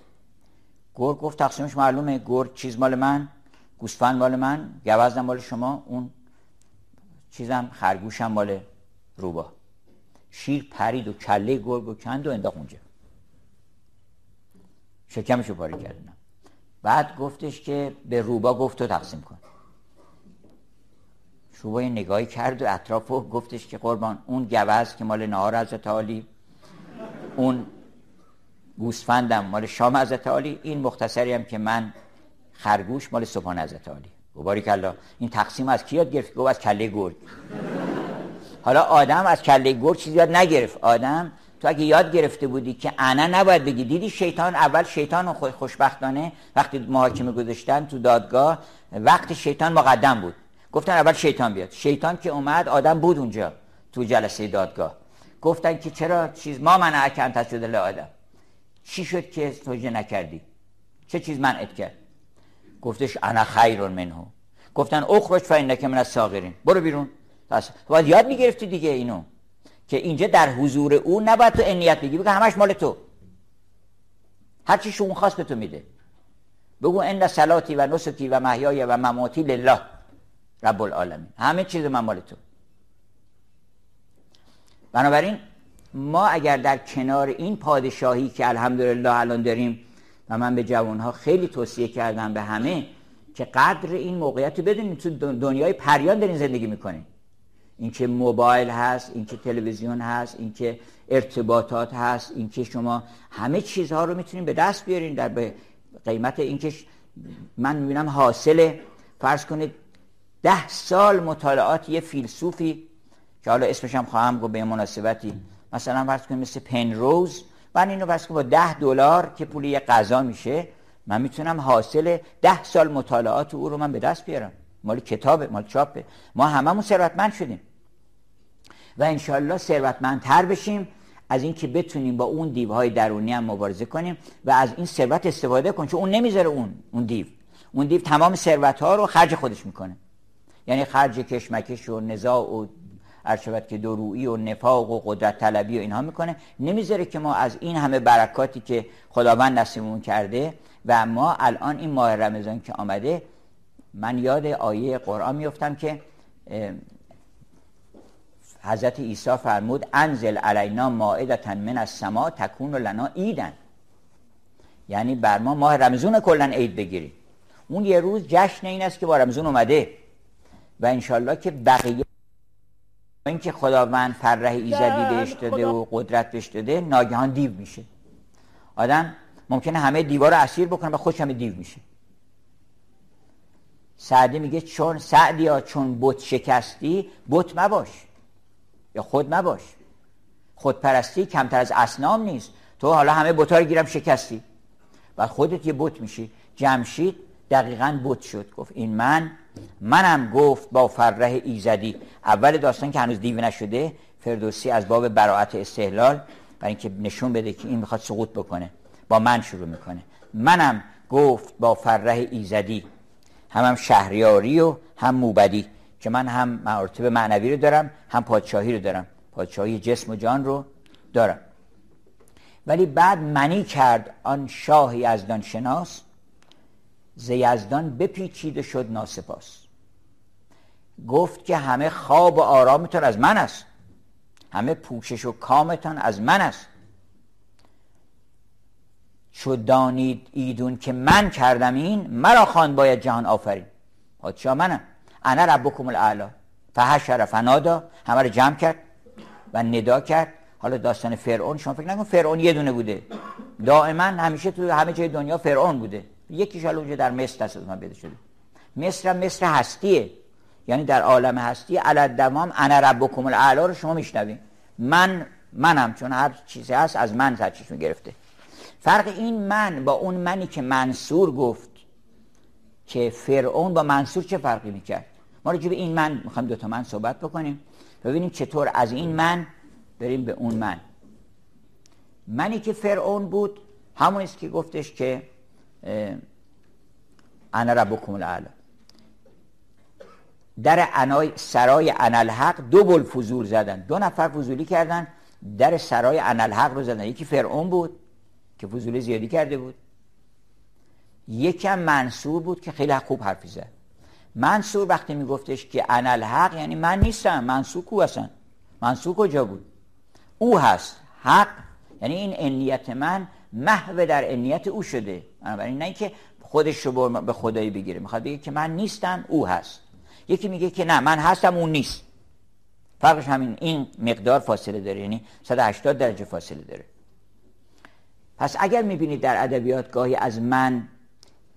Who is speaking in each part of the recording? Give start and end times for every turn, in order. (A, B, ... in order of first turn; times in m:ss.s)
0:01.0-0:06.1 A
0:07.3-0:08.6 A
0:09.2-0:09.5 A
0:10.3-0:12.8 A
0:15.1-0:16.2 A
0:16.8-0:19.4 A
0:21.6-0:26.3 A
0:27.4-0:27.7 A
0:28.8-0:31.9 A
0:32.6-0:37.2 A
0:38.6-0:58.1 A
0:58.8-1:00.4 A
1:01.1-1:01.9 A
1:02.8-1:09.2 A
1:09.9-1:13.0 A
1:14.7-1:15.9 A
1:16.8-1:19.8 A
1:20.6-1:22.4 A
1:24.9-1:25.4 A
1:25.9-1:37.1 A
1:37.8-1:49.7 A
1:50.4-1:52.9 A
1:53.4-2:07.6 A
2:09.0-2:20.0 A
2:20.7-2:22.7 A
2:23.2-2:33.2 A
2:33.9-2:36.8 A
2:38.6-2:43.6 A
2:44.9-2:47.2 A
2:47.7-2:49.9 A
2:50.8-2:52.1 A
2:53.2-2:57.9 A
2:58.8-3:01.8 A
3:04.0-3:08.1 A
3:08.9-3:09.7 A
3:10.6-3:14.4 A
3:15.2-3:32.8 A
3:33.5-3:41.4 A
3:42.7-3:46.0 A
3:47.2-3:49.7 A
3:51.0-3:53.7 A
3:54.5-3:56.7 A
3:59.3-4:03.7 A
4:04.2-4:08.8 A
4:09.5-4:13.0 A
4:13.6-4:18.2 A
4:18.8-4:20.1 A
4:20.7-4:28.2 A
4:28.8-4:31.8 A
4:32.9-4:40.8 A
4:42.3-4:45.2 A
4:45.8-4:46.2 A
4:47.5-4:48.5 A
4:50.6-4:58.0 A
4:58.6-4:59.8 A
5:01.3-5:03.7 A
5:04.4-5:08.3 A
5:08.8-5:09.6 A
5:10.4-5:22.0 A
5:23.0-5:26.8 A
5:28.4-5:30.9 A